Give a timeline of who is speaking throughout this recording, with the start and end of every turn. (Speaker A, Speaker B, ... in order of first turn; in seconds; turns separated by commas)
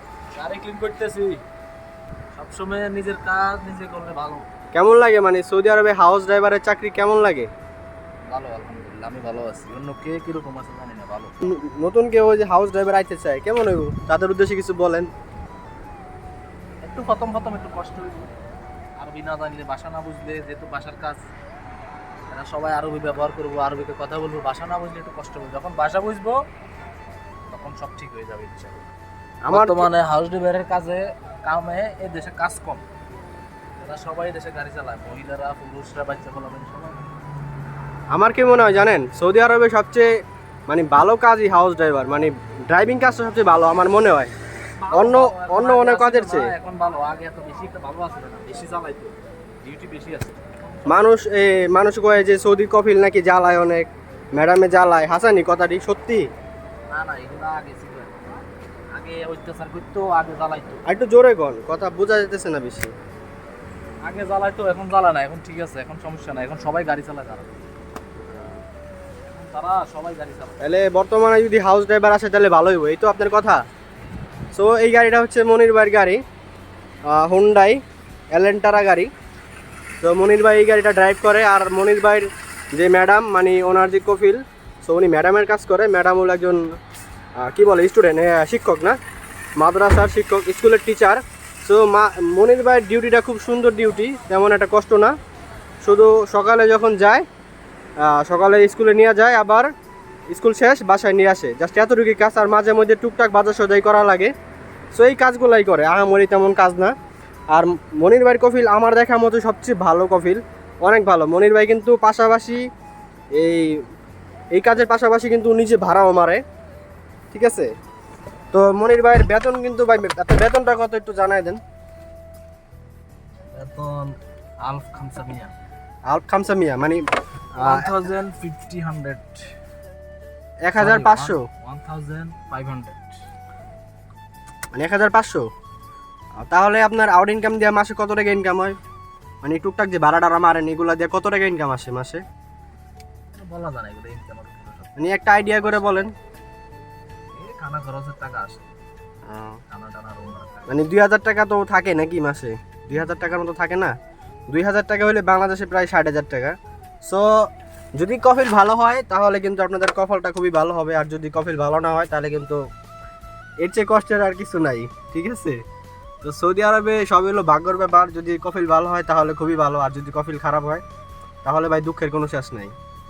Speaker A: 0.3-1.4, Speaker A: 2.3-4.5, Speaker B: 4.7-7.5, Speaker A: 8.2-11.3, Speaker B: 11.4-15.1, Speaker A: 16.8-18.3, Speaker A: 19.0-21.2, Speaker A: 22.3-26.4, Speaker A: 27.5-28.9, Speaker B: 29.4-29.9, Speaker A: 29.5-32.8, Speaker A: 33.8-37.1, Speaker B: 38.1-40.1, Speaker B: 40.7-44.3, Speaker A: 44.8-51.1, Speaker B: 44.9-46.5, Speaker B: 50.9-56.3, Speaker A: 56.9-58.2, Speaker A: 58.9-60.8, Speaker B: 60.9-62.9, Speaker A: 64.0-67.5, Speaker B: 68.3-68.6, Speaker A: 69.3-70.6, Speaker B: 70.6-73.6, Speaker B: 74.5-76.2, Speaker B: 77.1-77.8, Speaker B: 78.3-79.1, Speaker B: 80.0-86.8, Speaker B: 87.4-89.0, Speaker B: 89.6-95.1, Speaker B: 95.8-97.2, Speaker B: 98.0-99.7, Speaker B: 100.3-104.3, Speaker B: 104.9-106.9, Speaker B: 107.5-112.6, Speaker B: 113.3-113.8, Speaker B: 114.5-116.4, Speaker B: 117.3-117.7, Speaker B: 118.5-121.6, Speaker A: 123.5-125.5, Speaker B: 126.1-127.0, Speaker B: 127.5-127.9, Speaker A: 127.6-129.5, Speaker B: 130.6-131.4, Speaker A: 130.8-133.2, Speaker B: 134.7-135.4, Speaker B: 136.4-138.8, Speaker B: 139.4-142.2, Speaker A: 143.3-146.1, Speaker B: 145.0-146.1, Speaker A: 147.3-148.7, Speaker B: 149.3-149.6, Speaker A: 149.7-150.7, Speaker B: 150.7-153.9, Speaker B: 154.5-162.6, Speaker B: 163.6-165.6, Speaker B: 166.2-170.8, Speaker B: 171.4-172.7